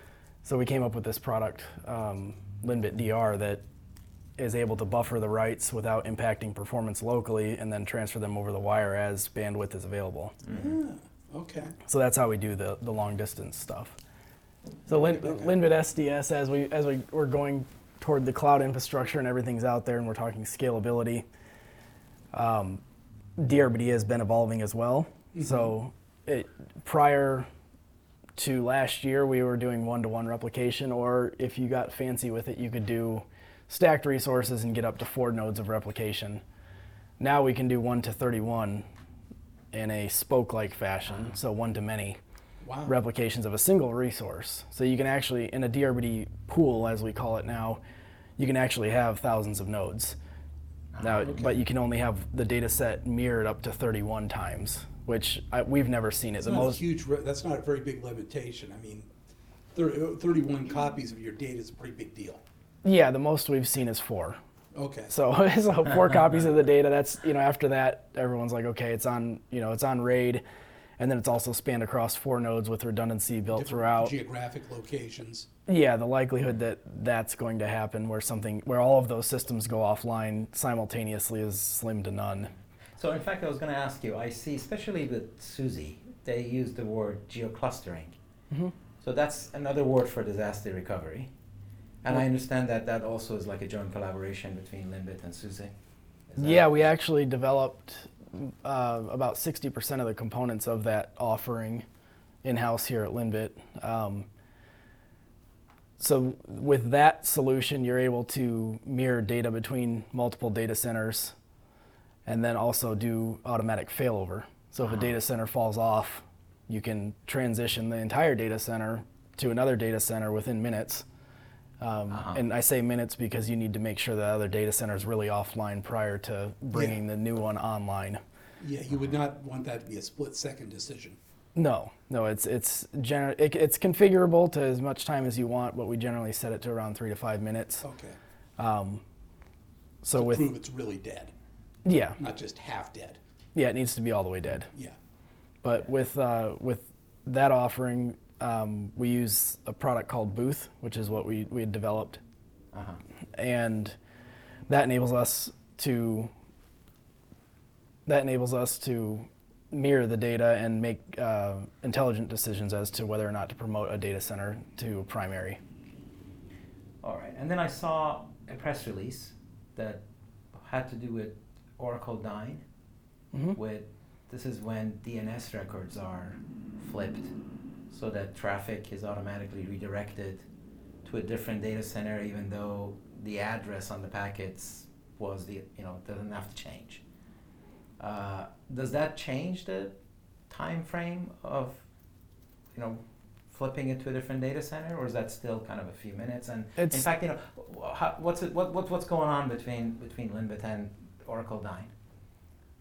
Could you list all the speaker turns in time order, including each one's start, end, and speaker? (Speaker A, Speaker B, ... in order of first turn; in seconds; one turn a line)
Speaker A: 0.4-3.6
Speaker A: 4.4-10.4
Speaker B: 10.4-10.7
Speaker C: 10.5-11.7
Speaker A: 11.8-13.9
Speaker A: 14.9-21.2
Speaker C: 15.2-15.6
Speaker A: 22.3-22.8
Speaker A: 23.4-27.5
Speaker C: 25.3-25.7
Speaker A: 28.4-36.4
Speaker A: 37.2-38.8
Speaker A: 39.7-42.2
Speaker C: 42.6-43.0
Speaker A: 42.9-47.8
Speaker A: 48.4-50.1
Speaker B: 50.9-51.3
Speaker A: 51.0-56.8
Speaker C: 51.2-51.6
Speaker C: 56.4-59.1
Speaker C: 59.7-62.4
Speaker A: 62.8-64.4
Speaker C: 64.7-65.1
Speaker A: 65.1-70.4
Speaker A: 71.0-74.1
Speaker C: 73.5-75.5
Speaker A: 75.7-82.5
Speaker B: 83.0-88.1
Speaker B: 89.0-91.3
Speaker B: 92.0-95.7
Speaker B: 96.3-96.7
Speaker A: 96.4-101.8
Speaker A: 102.4-104.3
Speaker A: 106.0-111.3
Speaker A: 112.2-121.0
Speaker B: 114.8-115.1
Speaker A: 121.8-128.2
Speaker B: 122.1-122.4
Speaker C: 126.7-127.0
Speaker C: 128.6-131.2
Speaker A: 131.5-137.8
Speaker C: 137.8-138.2
Speaker A: 138.6-139.0
Speaker A: 140.0-140.5
Speaker C: 140.1-141.3
Speaker A: 141.8-142.2
Speaker C: 142.2-143.2
Speaker A: 143.5-144.7
Speaker A: 145.6-152.2
Speaker B: 152.7-153.0
Speaker A: 153.3-153.9
Speaker A: 154.7-156.3
Speaker A: 158.1-165.6
Speaker B: 167.0-170.0
Speaker B: 170.5-172.6
Speaker A: 173.3-173.6
Speaker B: 173.5-177.3
Speaker B: 177.9-180.4
Speaker B: 181.0-187.0
Speaker B: 188.0-190.0
Speaker B: 190.5-191.8
Speaker B: 192.7-201.9
Speaker A: 196.8-197.1